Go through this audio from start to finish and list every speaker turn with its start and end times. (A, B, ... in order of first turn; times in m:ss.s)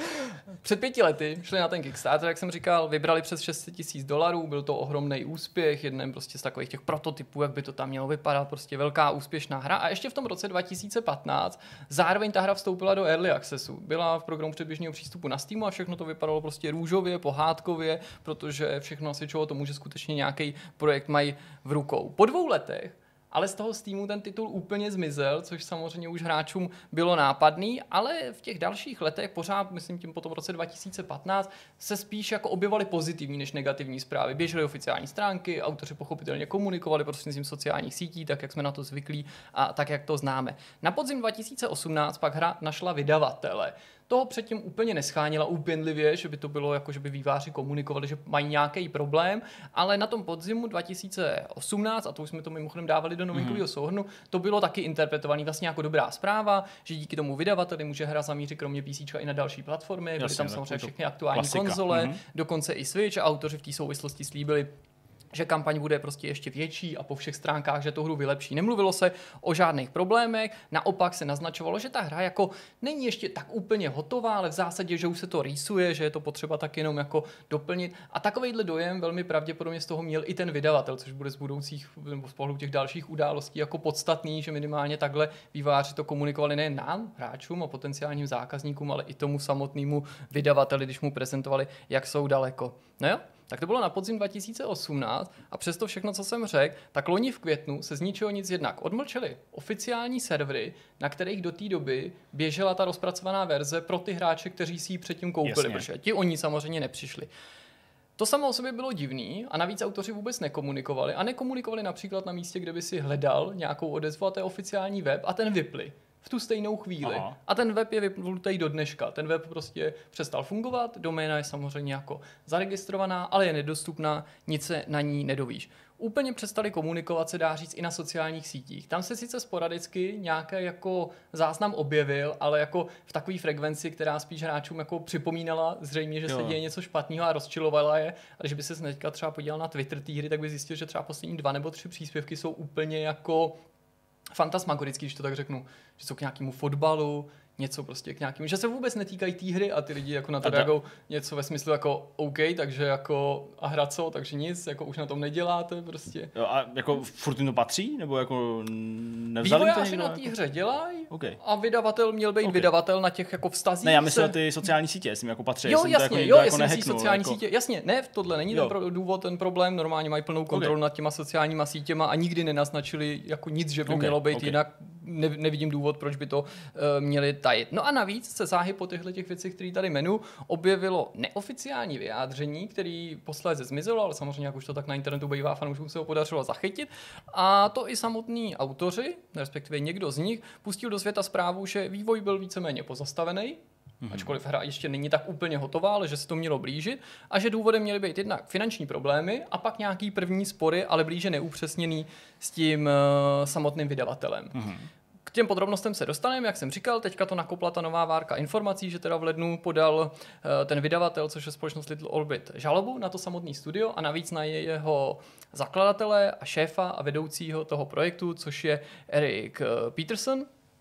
0:00.6-1:04.7 A
0:53.3-0:53.6 B
1:00.2-1:02.2 B
1:05.3-1:47.3 A
1:45.4-1:45.9 B
1:48.2-2:23.6 A
1:57.0-1:57.4 B
2:16.3-2:16.6 B
2:24.3-2:36.3 A
2:30.4-2:30.7 B
2:36.4-2:40.3 B
2:39.4-2:44.4 A
2:41.1-2:41.4 B
2:42.4-2:42.7 B
2:43.8-2:47.4 B
2:45.6-3:13.6 A
2:53.9-2:54.6 B
3:14.0-3:14.4 B
3:14.1-3:24.6 A
3:24.6-3:24.9 B
3:25.3-3:40.5 A